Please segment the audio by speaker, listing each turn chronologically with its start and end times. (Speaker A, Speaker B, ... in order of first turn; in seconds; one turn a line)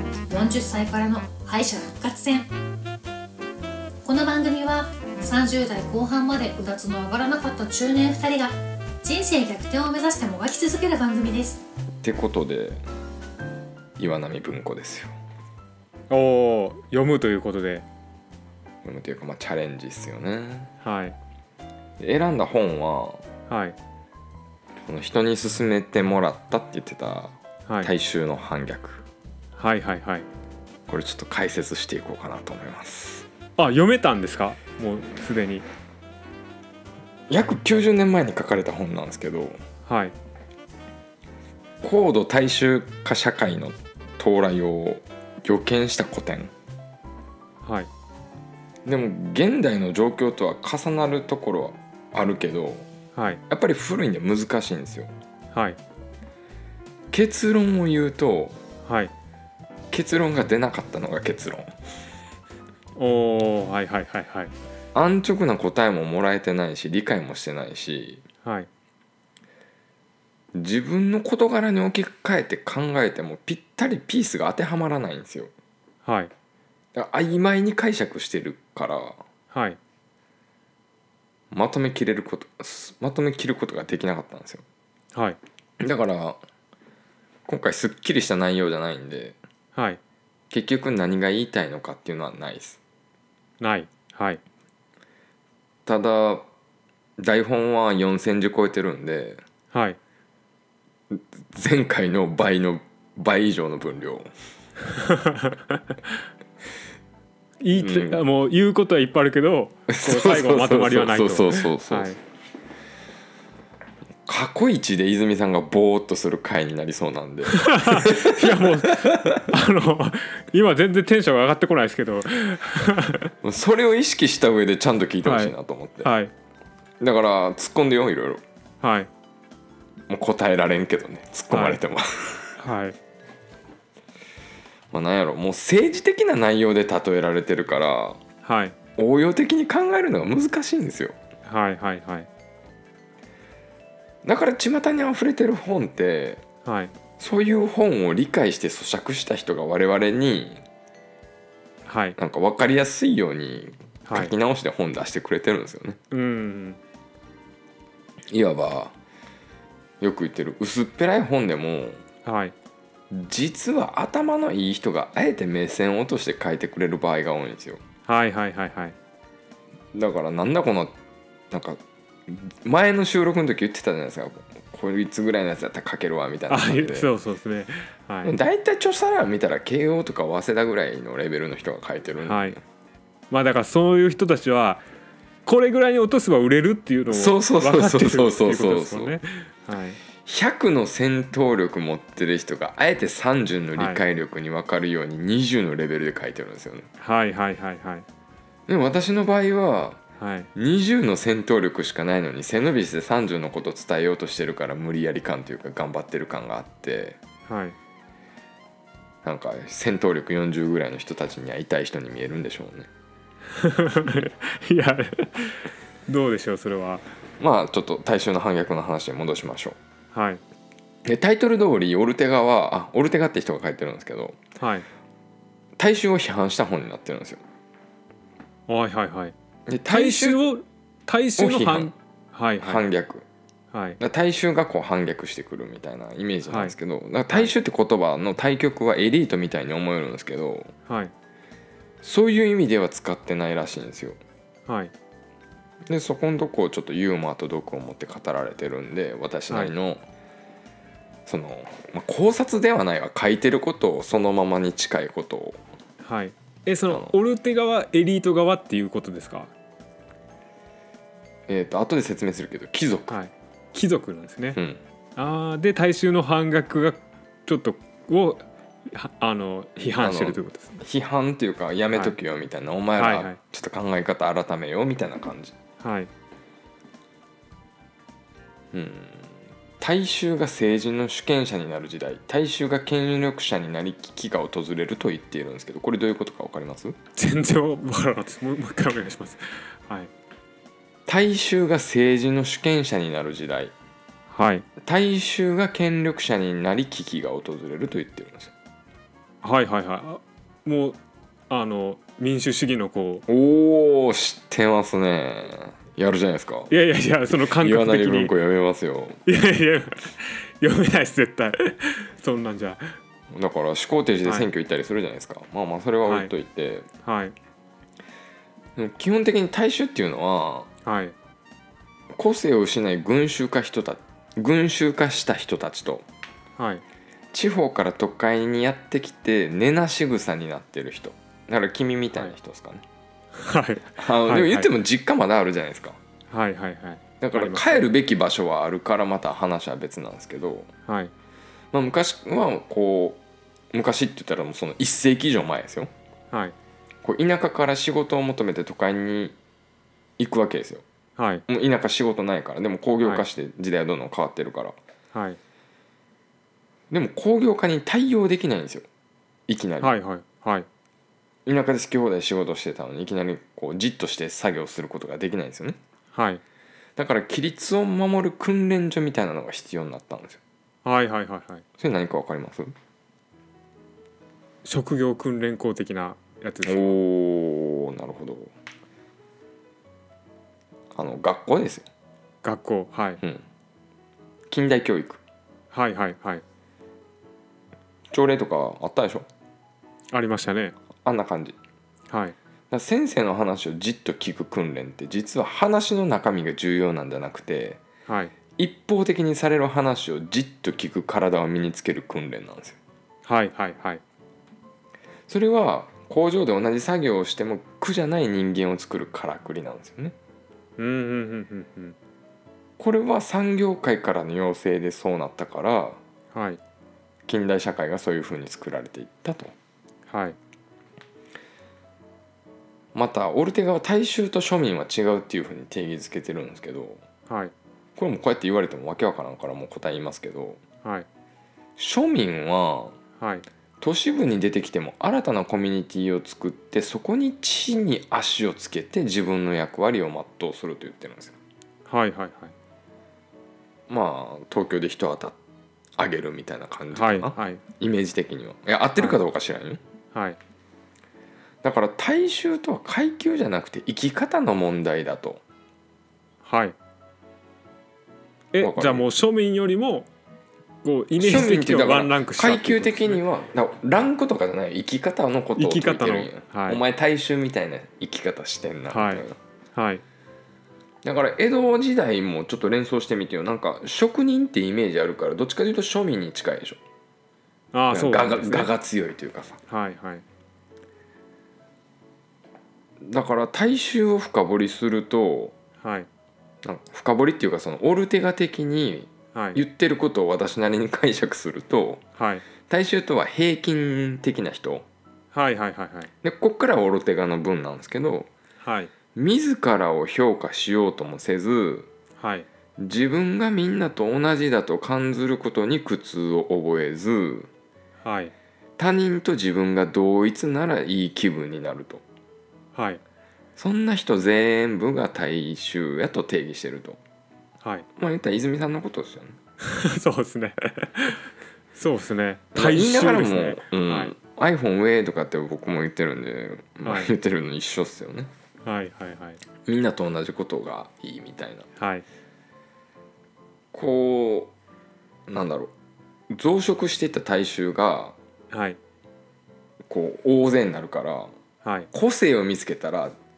Speaker A: 0.3-2.5
Speaker A: 4.0-11.6
Speaker B: 12.0-12.8
Speaker B: 14.0-15.1
Speaker C: 16.1-17.9
Speaker B: 18.8-20.7
Speaker C: 20.8-21.1
Speaker B: 22.0-23.2
Speaker C: 23.5-23.8
Speaker B: 24.8-29.0
Speaker C: 29.6-30.2
Speaker B: 30.9-33.2
Speaker C: 33.6-35.6
Speaker B: 37.3-39.6
Speaker C: 39.9-40.1
Speaker B: 41.8-46.5
Speaker C: 47.6-47.9
Speaker B: 48.8-52.9
Speaker C: 53.1-53.4
Speaker B: 53.5-55.1
Speaker C: 55.5-55.8
Speaker B: 57.1-58.6
Speaker C: 58.9-59.1
Speaker B: 59.9-61.7
Speaker C: 63.0-64.5
Speaker B: 64.9-68.2
Speaker B: 70.5-75.5
Speaker C: 76.0-76.3
Speaker B: 76.9-79.2
Speaker C: 79.5-79.8
Speaker B: 81.5-84.6
Speaker C: 85.1-85.4
Speaker B: 85.8-86.4
Speaker B: 87.5-89.4
Speaker C: 89.7-90.0
Speaker B: 90.5-92.8
Speaker C: 93.6-94.4
Speaker B: 95.8-96.5
Speaker B: 97.2-99.4
Speaker C: 99.7-100.0
Speaker B: 101.1-104.3
Speaker C: 104.9-105.8
Speaker C: 107.6-112.2
Speaker B: 107.8-108.2
Speaker B: 109.9-112.2
Speaker B: 114.2-119.5
Speaker C: 117.5-123.3
Speaker B: 123.4-126.1
Speaker C: 125.2-126.3
Speaker B: 127.0-128.4
Speaker C: 128.8-129.1
Speaker B: 130.1-132.5
Speaker C: 131.5-131.8
Speaker C: 132.6-132.9
Speaker B: 134.9-138.2
Speaker C: 138.4-138.8
Speaker B: 139.0-141.2
Speaker C: 141.4-142.3
Speaker B: 144.2-146.4
Speaker C: 146.6-146.9
Speaker B: 147.2-150.6
Speaker C: 151.9-152.2
Speaker B: 152.2-156.0
Speaker C: 154.1-154.3
Speaker C: 156.1-156.8
Speaker B: 158.3-158.9
Speaker B: 160.0-162.0
Speaker C: 162.2-162.5
Speaker B: 163.1-167.8
Speaker C: 168.1-168.9
Speaker B: 169.9-170.9
Speaker B: 171.5-177.1
Speaker C: 176.5-178.3
Speaker B: 178.2-182.6
Speaker C: 182.2-182.6
Speaker C: 183.3-184.8
Speaker C: 185.4-190.0
Speaker B: 187.1-189.1
Speaker B: 190.2-196.9
Speaker C: 193.8-194.0
Speaker C: 197.0-198.0
Speaker B: 198.7-200.0
Speaker C: 200.2-200.5
Speaker B: 200.6-207.2
Speaker C: 207.5-207.8
Speaker B: 209.2-212.9
Speaker C: 213.5-217.0
Speaker B: 217.4-219.8
Speaker C: 220.1-220.4
Speaker B: 221.0-224.4
Speaker C: 224.6-224.8
Speaker B: 225.8-227.4
Speaker C: 228.7-229.3
Speaker B: 229.7-230.4
Speaker C: 229.9-232.8
Speaker B: 231.4-231.9
Speaker B: 232.6-233.2
Speaker C: 233.7-234.0
Speaker B: 234.0-240.7
Speaker C: 236.5-236.7
Speaker C: 240.9-241.1
Speaker B: 242.0-244.2
Speaker C: 244.7-244.9
Speaker B: 245.8-250.0
Speaker B: 251.2-255.6
Speaker C: 256.0-259.5
Speaker B: 261.5-263.1
Speaker C: 263.1-264.6
Speaker C: 265.1-270.8
Speaker B: 269.8-275.5
Speaker C: 272.9-273.4
Speaker C: 275.8-276.1
Speaker B: 278.7-286.9
Speaker C: 287.1-290.1
Speaker B: 291.1-293.7
Speaker C: 294.3-294.6
Speaker B: 294.8-298.5
Speaker C: 299.4-301.0
Speaker C: 301.5-303.2
Speaker B: 303.3-306.7
Speaker C: 306.7-308.3
Speaker B: 307.4-309.2
Speaker C: 309.2-312.9
Speaker B: 313.3-316.9
Speaker C: 316.1-316.3
Speaker C: 317.0-317.3
Speaker B: 318.8-320.7
Speaker C: 320.8-321.1
Speaker B: 322.1-326.1
Speaker C: 326.6-326.8
Speaker B: 327.3-332.8
Speaker C: 333.3-334.7
Speaker B: 334.0-336.0
Speaker C: 336.3-337.9
Speaker B: 337.2-340.7
Speaker C: 340.9-341.1
Speaker B: 341.7-343.2
Speaker B: 343.7-345.9
Speaker B: 347.0-349.3
Speaker B: 350.2-350.8
Speaker C: 351.2-351.4
Speaker B: 351.5-354.7
Speaker C: 355.1-355.4
Speaker B: 356.9-358.9
Speaker B: 359.5-359.9
Speaker C: 359.8-360.7
Speaker B: 361.4-365.8
Speaker C: 366.1-366.4
Speaker B: 366.9-370.4
Speaker C: 370.8-371.6
Speaker B: 371.8-372.7
Speaker C: 374.6-376.9
Speaker B: 376.6-378.5
Speaker B: 380.9-381.9
Speaker C: 382.4-383.2
Speaker B: 384.5-385.2
Speaker C: 385.7-386.4
Speaker B: 388.1-389.2
Speaker C: 390.1-390.7
Speaker B: 391.0-391.6
Speaker C: 392.1-392.4
Speaker B: 392.7-397.8
Speaker C: 398.1-398.3
Speaker B: 398.6-402.8
Speaker C: 403.2-404.0
Speaker B: 405.3-410.1
Speaker C: 410.8-411.9
Speaker B: 412.8-416.0
Speaker C: 416.3-416.6
Speaker B: 417.3-419.5
Speaker C: 420.1-420.4
Speaker B: 422.9-427.0
Speaker C: 427.3-427.5
Speaker B: 427.9-430.6
Speaker B: 431.8-432.9
Speaker C: 433.2-433.4
Speaker B: 433.8-441.4
Speaker C: 441.9-442.5
Speaker B: 443.9-445.4
Speaker B: 446.0-449.8
Speaker C: 446.9-447.6
Speaker C: 450.1-450.4
Speaker B: 451.6-455.4
Speaker C: 456.4-456.8
Speaker C: 458.5-460.1
Speaker B: 458.6-459.1
Speaker C: 460.8-463.2
Speaker B: 461.2-469.4
Speaker C: 465.6-466.8
Speaker C: 468.9-470.0
Speaker B: 471.0-476.8
Speaker C: 477.7-478.7
Speaker B: 477.9-479.6
Speaker C: 479.7-480.2
Speaker B: 483.0-485.5
Speaker C: 485.8-486.1
Speaker B: 486.6-492.0
Speaker C: 489.3-489.6
Speaker C: 492.2-492.4
Speaker B: 492.7-494.9
Speaker C: 495.3-496.1
Speaker B: 496.2-498.3
Speaker C: 498.6-498.9
Speaker B: 499.1-501.9
Speaker C: 502.2-502.5
Speaker B: 502.8-507.5
Speaker C: 508.0-508.3
Speaker B: 508.8-512.0
Speaker C: 512.7-513.0
Speaker B: 513.6-517.0
Speaker C: 517.6-517.9
Speaker B: 518.0-519.4
Speaker C: 519.6-524.1
Speaker B: 522.5-528.3
Speaker C: 526.8-527.1
Speaker C: 528.6-529.4
Speaker B: 529.6-531.7
Speaker C: 531.8-532.0
Speaker B: 533.7-534.5
Speaker B: 535.3-535.7
Speaker B: 536.3-538.1
Speaker C: 538.5-538.8
Speaker B: 539.9-541.3
Speaker C: 541.6-541.9
Speaker B: 541.9-543.1